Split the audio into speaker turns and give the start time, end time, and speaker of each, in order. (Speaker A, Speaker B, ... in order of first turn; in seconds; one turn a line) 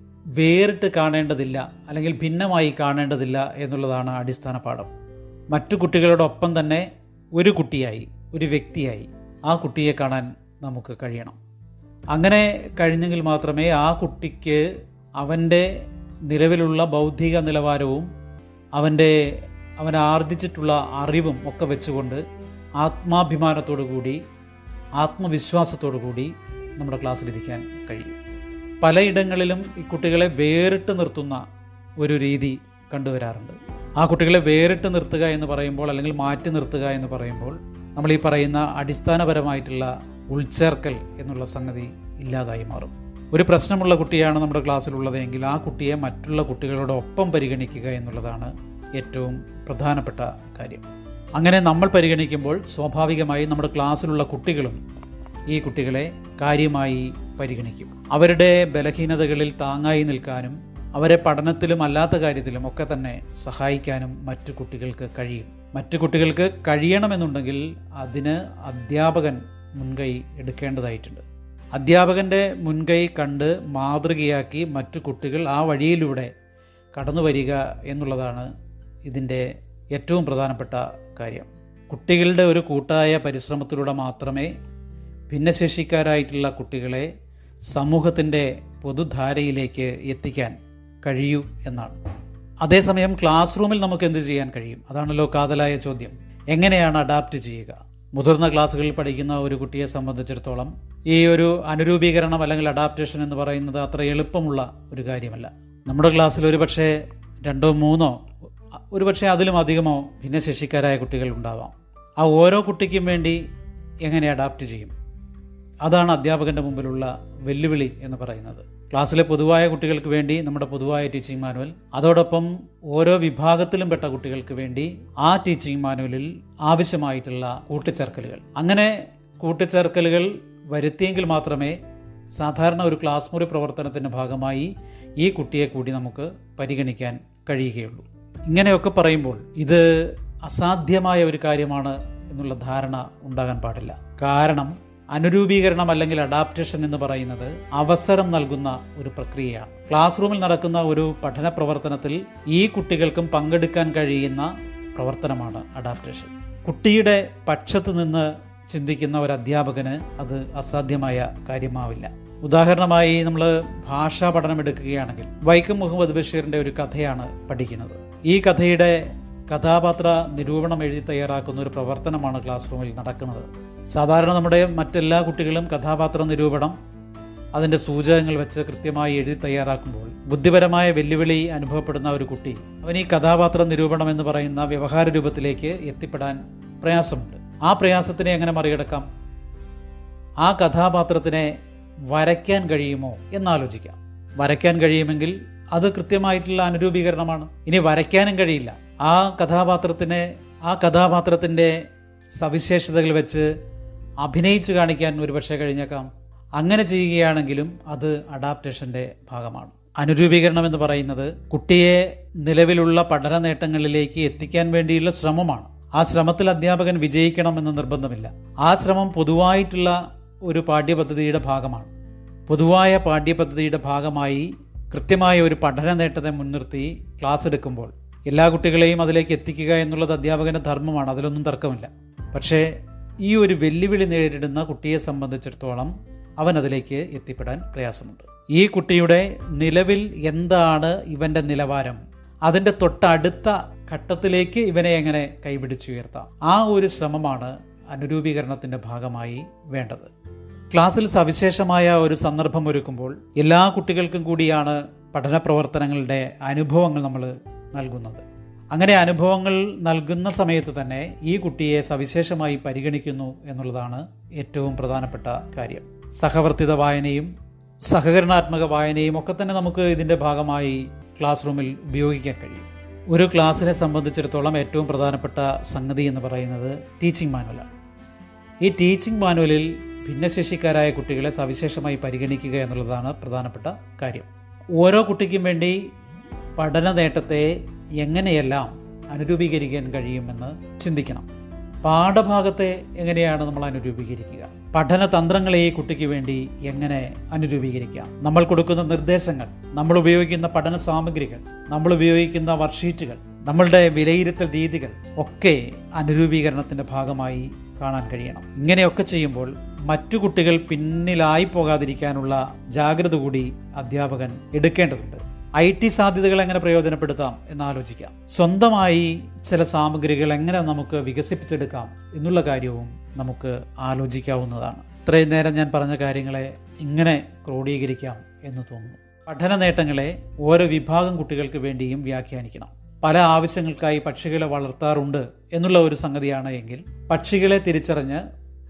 Speaker A: 0.4-4.9
Speaker A: 5.5-11.4
Speaker A: 12.1-14.7
Speaker A: 15.2-15.7
Speaker A: 16.3-18.1
Speaker A: 18.8-22.2
Speaker A: 22.8-24.2
Speaker A: 25.0-28.2
Speaker A: 28.8-31.4
Speaker A: 32.0-50.8
Speaker A: 51.4-54.8
Speaker A: 55.5-76.3
Speaker A: 76.9-78.5
Speaker A: 79.0-84.5
Speaker A: 85.3-87.1
Speaker A: 87.7-92.0
Speaker A: 92.6-108.2
Speaker A: 108.8-113.4
Speaker A: 114.0-114.9
Speaker A: 115.8-131.8
Speaker A: 132.4-176.8
Speaker A: 177.6-189.1
Speaker A: 190.4-191.5
Speaker A: 192.1-201.8
Speaker A: 202.4-203.5
Speaker A: 204.2-221.9
Speaker A: 222.5-232.7
Speaker A: 233.2-250.1
Speaker A: 250.7-267.3
Speaker A: 267.9-277.7
Speaker A: 278.6-285.8
Speaker A: 286.6-291.3
Speaker A: 291.8-338.2